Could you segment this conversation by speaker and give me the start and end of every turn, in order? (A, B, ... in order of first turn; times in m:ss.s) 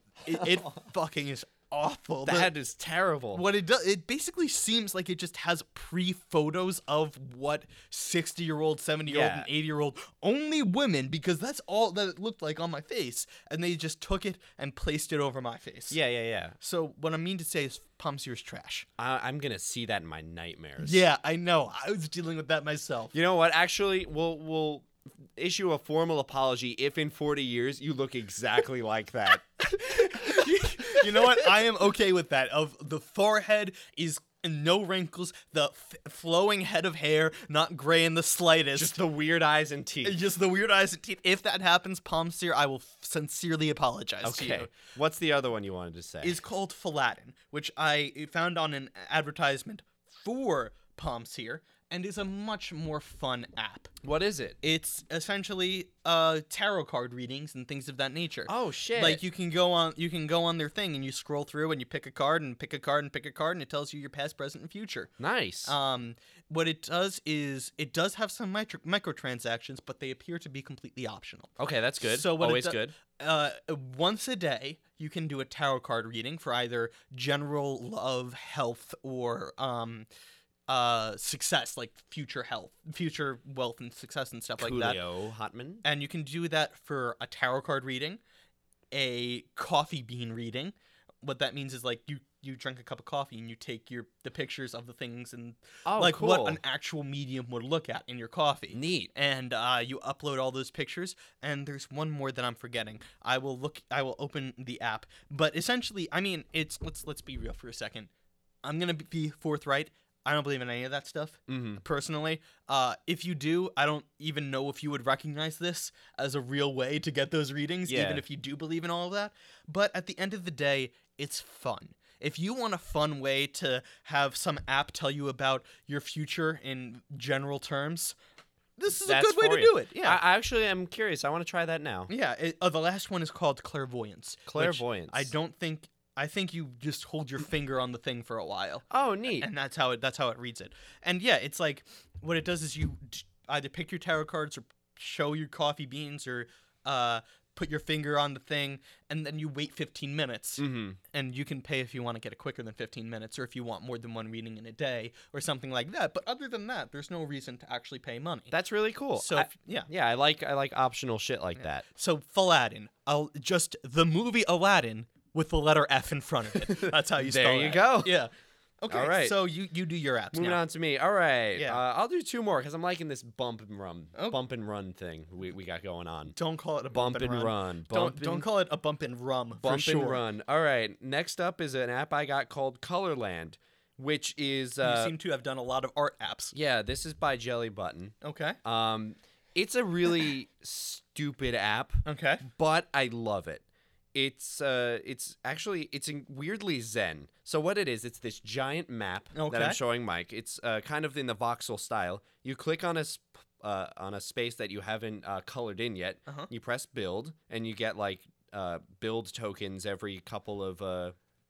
0:00.2-0:02.5 A
0:02.2-0:03.4 B
0:03.3-0:16.0 A
0:09.1-0:09.5 B
0:15.9-0:16.6 B
0:16.6-0:18.9 A
0:19.0-0:21.0 B
0:20.8-0:23.1 A
0:23.1-0:31.5 B
0:29.8-0:39.0 A
0:38.8-0:40.2 B
0:40.0-0:44.7 A
0:44.2-0:46.4 B
0:46.2-0:53.9 A
0:54.0-0:54.6 B
0:54.6-1:05.1 A
0:58.5-0:59.2 B
1:05.2-1:05.7 B
1:05.7-1:11.5 A
1:11.6-1:13.0 B
1:12.0-1:20.1 A
1:20.7-1:25.0 A
1:24.6-1:25.8 B
1:25.8-1:28.2 A
1:28.9-1:48.1 A
1:35.9-1:36.6 B
1:38.7-1:39.1 B
1:48.6-2:08.2 A
1:51.5-1:51.8 B
1:57.9-1:58.2 B
2:08.8-2:10.2 A
2:09.0-2:12.1 B
2:12.1-2:38.5 A
2:14.5-2:15.3 B
2:18.9-2:19.5 B
2:30.6-2:31.0 B
2:38.5-2:41.9 B
2:39.2-2:39.9 A
2:41.9-2:50.6 A
2:46.6-2:48.3 B
2:48.9-2:49.4 B
2:50.3-2:56.4 B
2:51.6-2:51.8 A
2:56.4-3:00.2 A
2:56.9-2:58.5 B
2:59.6-3:05.1 B
3:04.8-3:06.6 A
3:06.5-3:13.6 B
3:08.2-3:08.6 A
3:12.0-3:12.4 A
3:14.1-3:31.2 B
3:19.3-3:19.8 A